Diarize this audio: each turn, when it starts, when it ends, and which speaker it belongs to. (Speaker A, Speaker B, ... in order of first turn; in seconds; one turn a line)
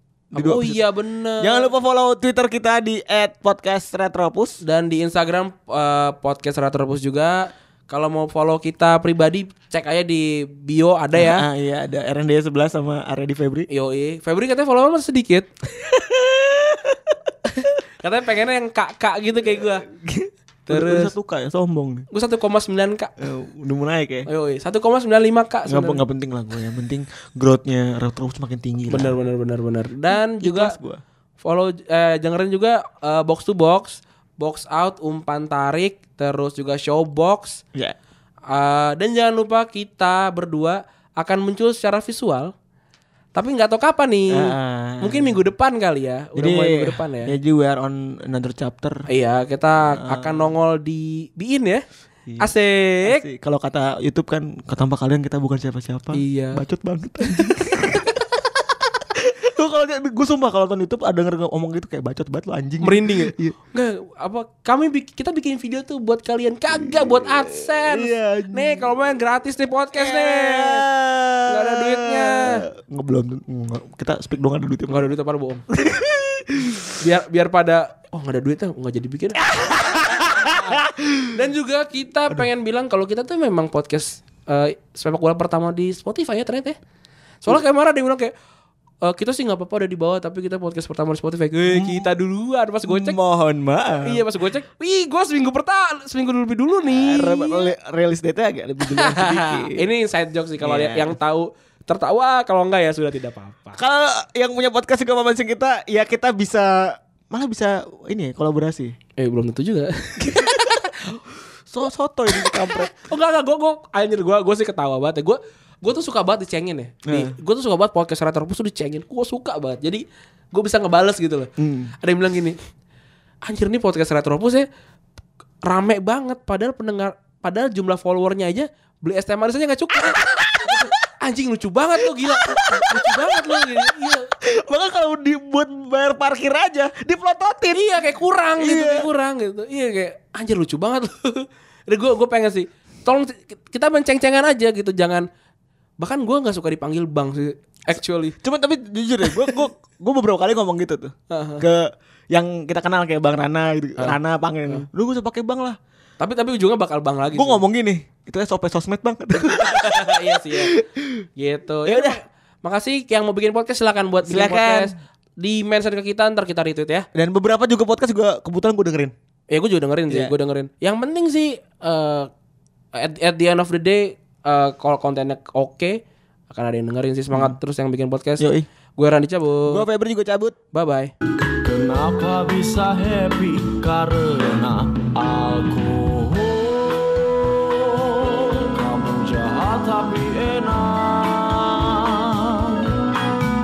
Speaker A: 0.3-0.9
Speaker B: 0.3-1.7
Speaker A: 1.4-4.6
Speaker B: 4.6-11.4
Speaker A: 11.1-13.7
Speaker B: 13.7-15.5
Speaker A: 15.7-17.8
Speaker B: 18.0-19.9
Speaker A: 19.4-22.1
Speaker B: 20.7-21.1
Speaker B: 22.1-23.1
Speaker A: 23.2-24.3
Speaker B: 24.3-26.0
Speaker A: 25.7-29.1
Speaker B: 28.9-30.7
Speaker A: 30.1-31.0
Speaker B: 31.4-37.6
Speaker B: 38.5-42.5
Speaker B: 43.3-47.3
Speaker A: 44.3-45.4
Speaker A: 46.4-49.0
Speaker B: 49.1-51.8
Speaker A: 49.9-50.5
Speaker A: 52.3-52.5
Speaker B: 52.4-53.2
Speaker A: 53.0-58.2
Speaker B: 56.1-56.6
Speaker B: 57.2-57.6
Speaker A: 59.0-63.5
Speaker B: 62.8-70.8
Speaker A: 66.7-68.9
Speaker A: 69.9-75.1
Speaker B: 71.5-72.6
Speaker B: 74.9-75.6
Speaker A: 75.7-77.0
Speaker B: 77.0-80.8
Speaker A: 79.4-81.4
Speaker B: 81.3-86.8
Speaker B: 87.4-88.3
Speaker B: 89.0-93.2
Speaker A: 91.7-92.1
Speaker A: 92.8-94.2
Speaker B: 94.0-97.7
Speaker A: 96.8-99.8
Speaker B: 98.9-103.8
Speaker A: 100.6-101.1
Speaker A: 103.8-109.0
Speaker B: 109.2-111.0
Speaker A: 110.2-111.1
Speaker A: 111.7-112.9
Speaker B: 112.3-122.6
Speaker A: 117.1-117.3
Speaker A: 121.6-121.9
Speaker B: 123.5-124.7
Speaker B: 125.6-134.3
Speaker A: 130.0-130.9
Speaker A: 132.0-137.9
Speaker B: 137.7-145.2
Speaker A: 138.6-139.1
Speaker B: 146.0-148.3
Speaker A: 148.4-155.8
Speaker B: 151.3-151.6
Speaker B: 154.0-154.8
Speaker B: 156.2-157.6
Speaker A: 157.3-161.2
Speaker B: 159.5-160.7
Speaker B: 161.4-167.1
Speaker A: 161.8-162.2
Speaker A: 164.2-164.9
Speaker A: 167.1-169.1
Speaker B: 169.5-172.3
Speaker A: 170.1-170.3
Speaker B: 172.9-179.8
Speaker A: 178.4-178.7
Speaker A: 179.7-180.6
Speaker B: 180.7-181.1
Speaker C: 181.6-192.9